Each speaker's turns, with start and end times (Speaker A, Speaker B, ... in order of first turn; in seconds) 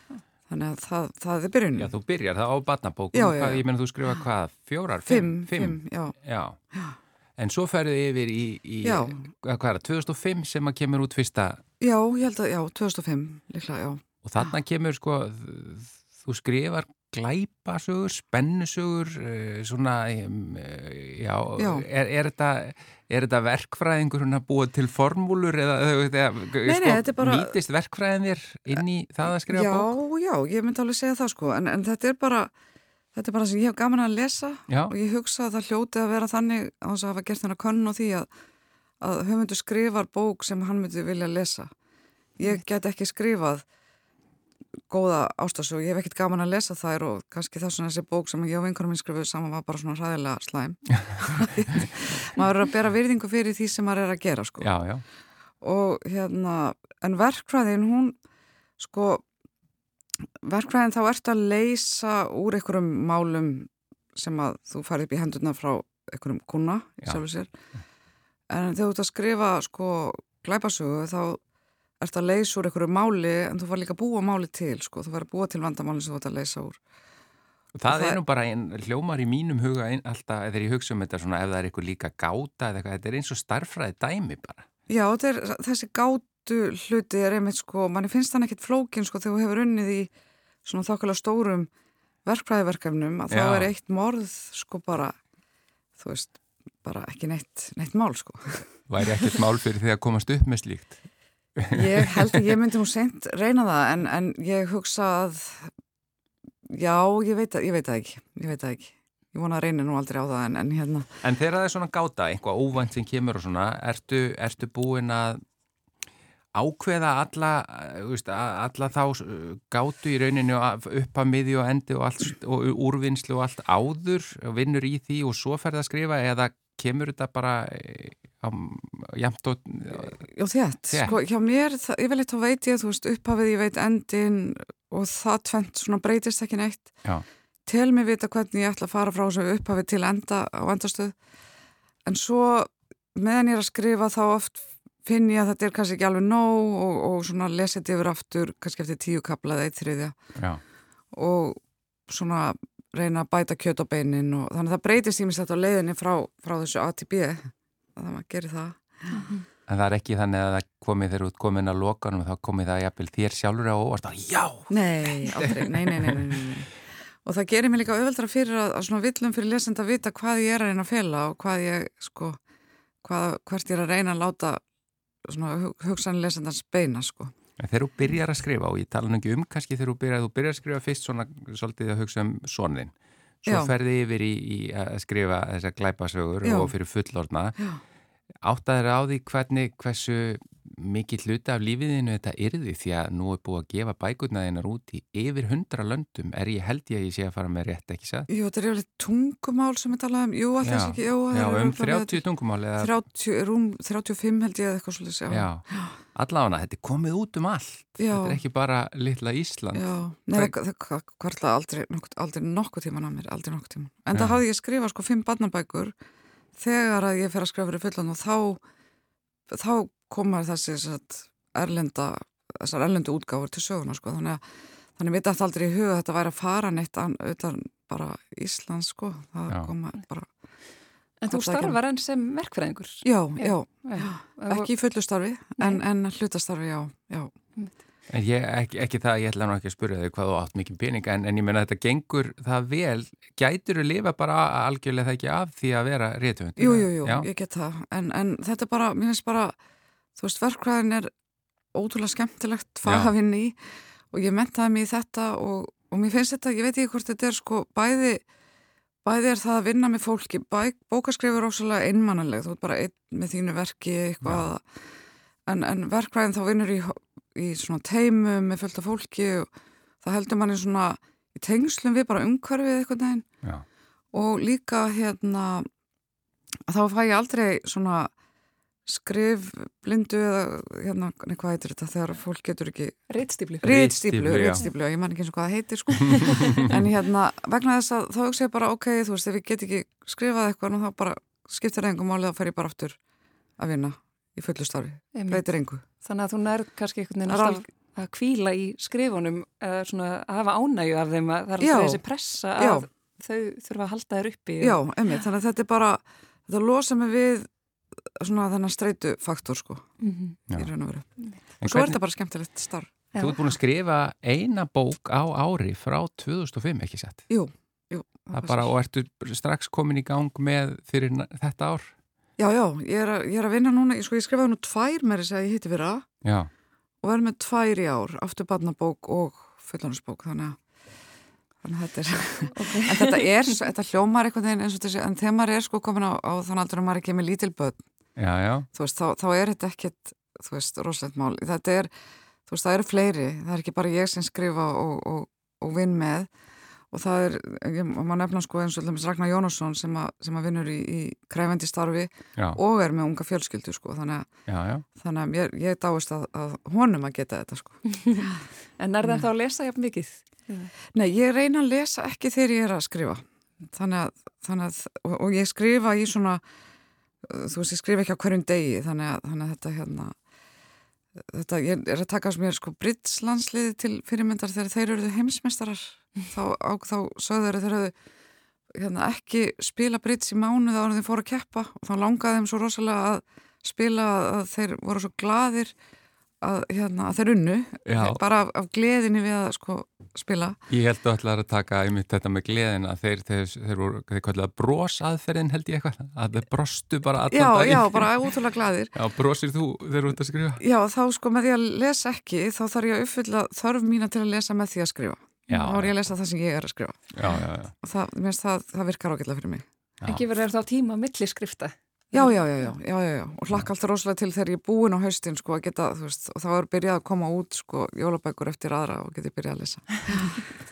Speaker A: 0.5-1.9, 3.1-3.6, 5.1-6.2, 8.8-9.2, 11.8-14.0, 21.6-21.9, 26.6-27.6, 29.5-32.5, 33.1-38.3, 39.0-41.7, 42.4-43.6, 44.9-54.7, 55.6-58.2, 58.8-59.2, 60.4-67.5, 68.5-71.4, 72.0-76.8, 77.9-78.2, 84.9-90.1, 90.7-91.7, 92.2-95.2, 96.0-98.7, 101.7-105.7, 106.7-111.1, 130.2-136.9, 137.7-141.2, 142.1-150.2, 151.1-159.3, 164.7-166.7, 167.2-172.4, 173.0-174.6, 175.3-177.3, 183.5-183.7, 186.4-186.7, 198.3-202.2, 202.8-205.9, 208.0-208.4, 209.7-215.9, 216.6-218.6, 219.5-224.4, 225.0-230.3, 231.3-231.8, 233.0-237.3, 246.6-249.6, 250.2-251.1, 251.7-253.6, 254.1-258.2, 259.0-264.6, 265.5-269.5, 270.0-273.3, 274.1-275.7, 276.7-278.1, 278.9-283.0, 283.6-293.0, 293.6-295.8, 297.3-297.6, 301.6-302.0, 302.6-302.9, 304.6-307.5, 308.2-309.9, 310.5-311.1, 311.6-312.9, 317.3-318.7, 322.4-326.1, 327.0-330.6, 331.6-337.8, 338.7-341.9, 342.5-346.3, 346.9-354.3, 355.0-358.3, 360.9-366.4, 367.2-370.1, 371.3-377.9, 378.8-385.7, 386.4-390.6, 397.3-398.9, 400.6-407.1, 407.8-409.6, 412.1-420.4
Speaker B: 1.8-6.6, 7.4-11.6, 14.2-29.9, 34.7-34.9, 54.6-55.0, 77.8-84.7, 93.3-93.7, 98.9-101.0, 101.6-102.4, 111.2-115.4, 116.5-130.2, 130.9-131.2, 159.7-166.4, 177.6-187.6, 188.4-198.3, 200.6-203.0, 205.3-210.5, 214.1-214.4, 238.1-247.3, 252.8-253.1, 283.6-284.6, 286.0-286.8, 311.6-312.0, 313.2-317.2, 318.3-321.9, 326.2-326.5, 338.2-338.7, 354.5-354.9, 387.9-388.2, 390.7-398.3, 398.9-400.6, 405.5-406.0, 407.1-407.7
Speaker C: 231.2-234.7, 283.1-283.7, 295.1-295.4, 296.0-304.8, 310.0-310.4, 313.1-313.4, 332.6-333.3, 358.8-360.7, 410.1-412.3